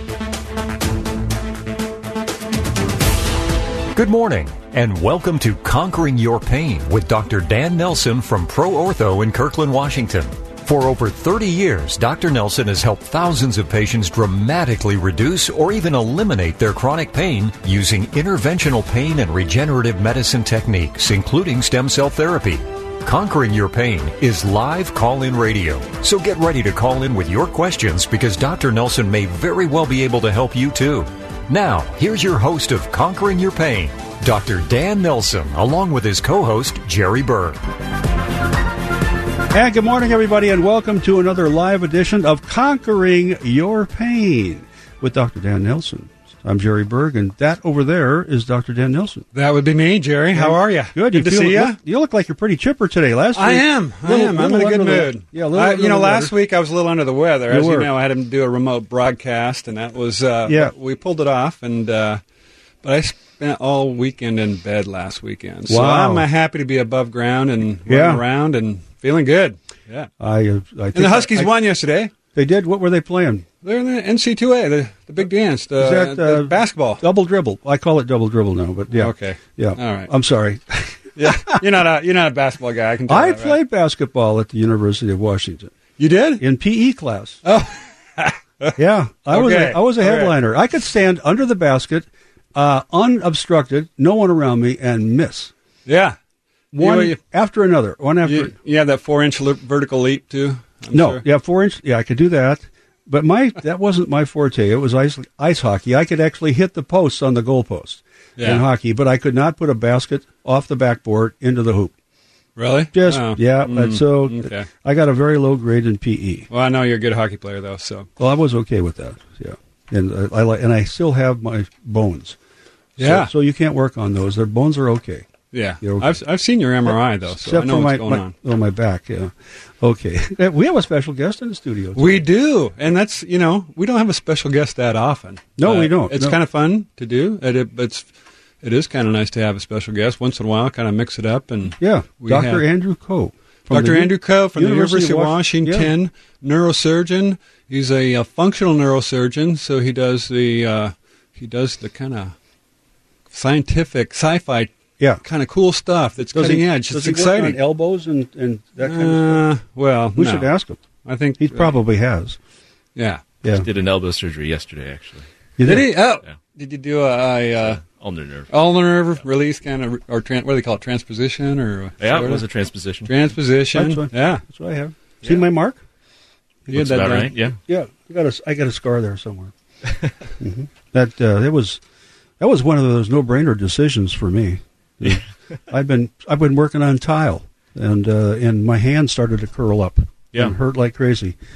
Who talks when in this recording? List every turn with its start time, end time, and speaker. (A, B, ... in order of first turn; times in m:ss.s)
0:03.9-0:37.6 A
0:39.5-0:49.2 B
0:49.3-0:51.8 C
0:50.3-0:56.3 B
0:53.4-1:02.2 C
0:57.5-0:57.9 B
1:00.5-1:00.7 B
1:02.8-1:10.1 C
1:05.7-1:06.3 B
1:07.9-1:08.2 B
1:10.2-1:11.5 B
1:10.9-1:12.1 C
1:12.3-1:13.5 B
1:13.6-1:17.0 C
1:15.8-1:21.6 B
1:18.9-1:20.1 C
1:21.2-1:23.6 C
1:23.1-1:25.7 B
1:26.0-1:26.4 C
1:26.4-1:27.4 B
1:27.4-1:30.4 C
1:28.8-1:35.5 B
1:35.9-1:36.2 C
1:36.7-1:38.6 B
1:36.8-1:37.2 C
1:38.2-1:41.2 C
1:40.9-1:51.9 B
1:48.4-1:48.6 C
1:52.6-1:54.7 C
1:52.9-1:56.5 B
1:56.5-1:58.1 C
1:58.2-2:02.4 B
2:03.0-2:06.2 B
2:03.0-2:03.3 C
2:05.5-2:08.3 C
2:06.8-2:12.2 B
2:12.0-2:18.1 C
2:15.6-2:16.4 B
2:18.6-2:22.6 C
2:21.8-2:25.9 B
2:23.7-2:32.4 C
2:33.3-2:37.6 C
2:36.3-2:39.5 B
2:38.8-2:41.7 C
2:40.1-2:40.9 B
2:41.4-2:42.4 B
2:43.0-2:43.2 C
2:43.5-2:45.3 D
2:45.6-2:46.0 B
2:45.6-2:47.8 C
2:47.6-2:48.5 D
2:48.5-2:52.4 C
2:52.0-2:53.1 D
2:53.0-2:54.4 C
2:53.7-2:55.8 B
2:56.7-2:59.5 B
2:56.7-2:57.3 C
2:56.7-2:57.6 D
3:00.4-3:01.8 B
3:02.4-3:11.4 B